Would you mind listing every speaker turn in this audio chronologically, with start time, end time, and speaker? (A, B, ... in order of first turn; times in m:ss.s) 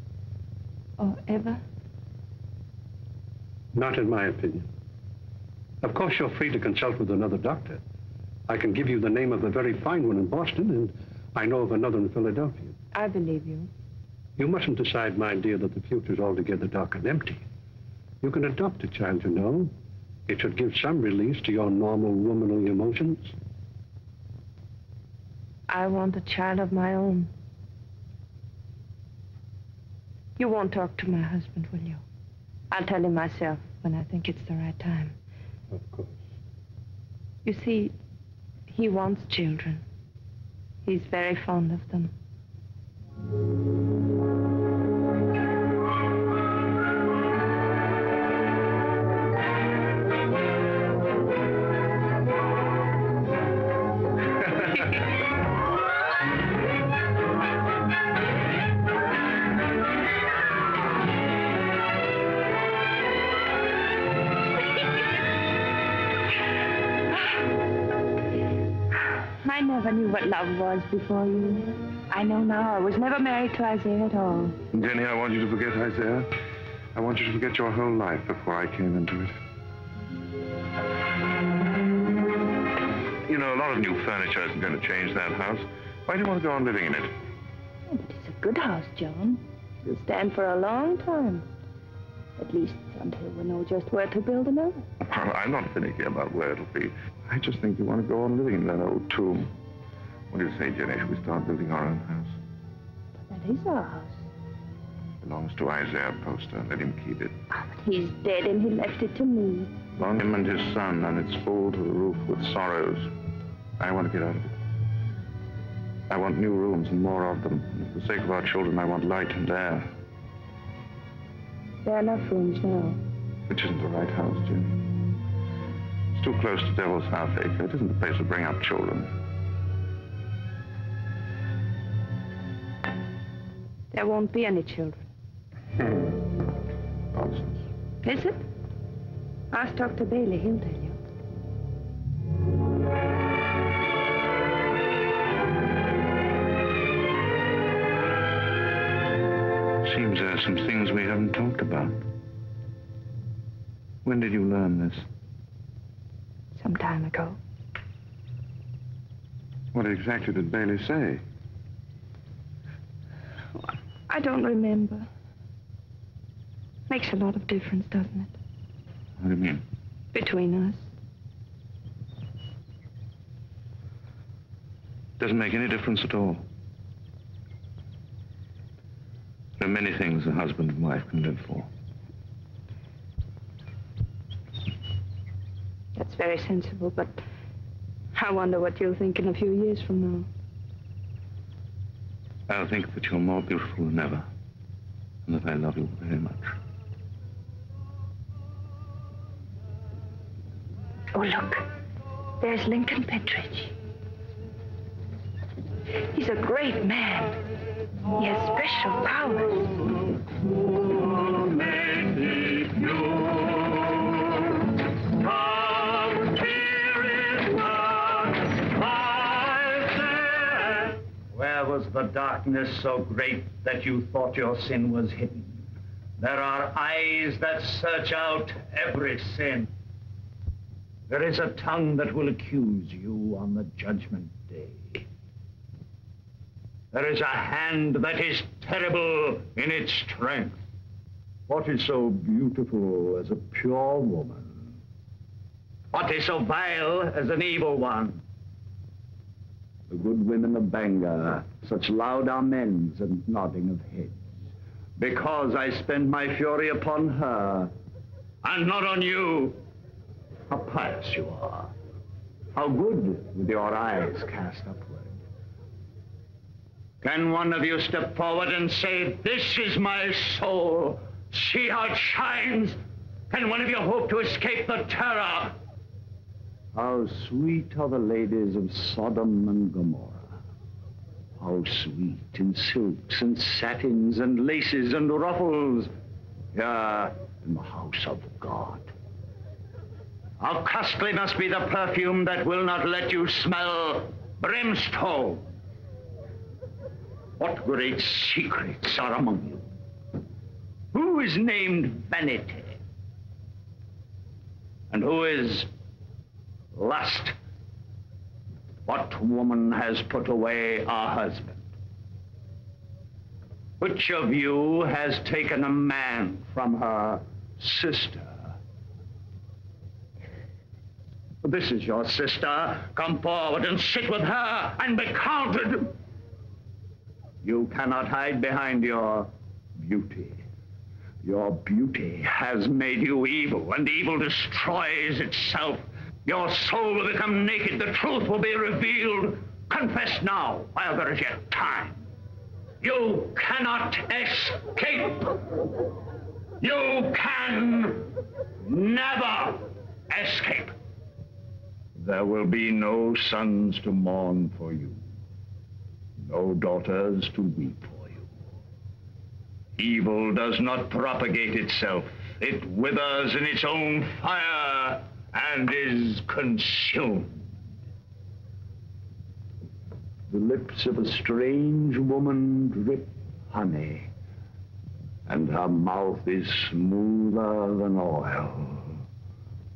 0:01.0-0:01.6 A
0:03.7-0:04.7 B
0:05.8-0:07.8 B
0:08.5-0:12.8 B
0:12.9-0:13.7 A
0:14.4-0:17.4 B
0:18.2-0:19.7 B
0:20.3-0:23.4 B
0:25.7-0:27.3 A
0:30.4-0:32.0 A
0:32.7-0:35.2 A
0:35.8-0:36.0 B
0:37.4-0:38.0 A
0:38.7-0:39.8 A
0:40.8-0:42.1 A
1:09.4-1:14.6 A
1:14.7-1:16.3 C
1:17.0-1:19.4 C
1:23.2-1:27.1 C
1:27.9-1:31.5 A
1:32.4-1:34.8 A
1:35.0-1:39.5 C
1:40.3-1:42.3 C
1:43.2-1:44.2 A
1:45.2-1:47.3 C
1:47.5-1:49.7 A
1:50.0-1:53.1 C
1:53.8-1:54.5 C
1:56.1-1:59.9 C
2:01.8-2:03.0 A
2:03.5-2:04.7 C
2:06.2-2:09.1 C
2:13.9-2:15.1 A
2:17.1-2:17.6 C
2:18.0-2:18.4 A
2:19.5-2:21.0 A
2:29.8-2:32.0 C
2:34.0-2:35.0 C
2:36.6-2:37.4 A
2:39.7-2:41.2 C
2:43.6-2:45.1 A
2:46.9-2:48.4 A
2:49.2-2:49.6 C
2:50.1-2:50.8 A
2:55.2-2:56.4 C
2:59.6-3:01.7 C
3:06.0-3:07.2 A
3:08.1-3:10.3 A
3:12.5-3:14.3 C
3:15.3-3:16.6 C
3:21.1-3:21.7 A
3:22.4-3:23.7 A
3:26.1-3:27.4 A
3:28.1-3:29.9 A
3:31.2-3:34.3 D
3:35.2-3:40.7 D
3:41.3-3:45.5 D
3:46.2-3:49.7 D
3:51.1-3:55.0 D
3:56.9-4:00.6 D
4:01.5-4:04.5 D
4:05.9-4:08.2 D
4:09.9-4:14.1 D
4:15.0-4:17.7 D
4:18.4-4:19.6 D
4:20.5-4:21.7 D
4:22.6-4:25.1 D
4:27.0-4:32.8 D
4:33.3-4:35.6 D
4:36.7-4:40.2 D
4:41.4-4:45.9 D
4:46.5-4:48.9 D
4:50.4-4:55.5 D
4:57.4-4:59.6 D
5:00.9-5:02.8 D
5:04.9-5:05.7 D
5:06.7-5:07.4 D
5:08.9-5:11.6 D
5:13.8-5:18.4 D
5:21.4-5:25.9 D
5:27.4-5:30.4 D
5:31.2-5:42.0 D
5:42.8-5:45.4 D
5:46.6-5:48.1 D
5:48.6-5:50.7 D
5:52.0-5:55.0 D
5:56.2-5:58.2 D
5:59.8-6:07.3 D
6:10.3-6:14.1 D
6:15.3-6:19.0 D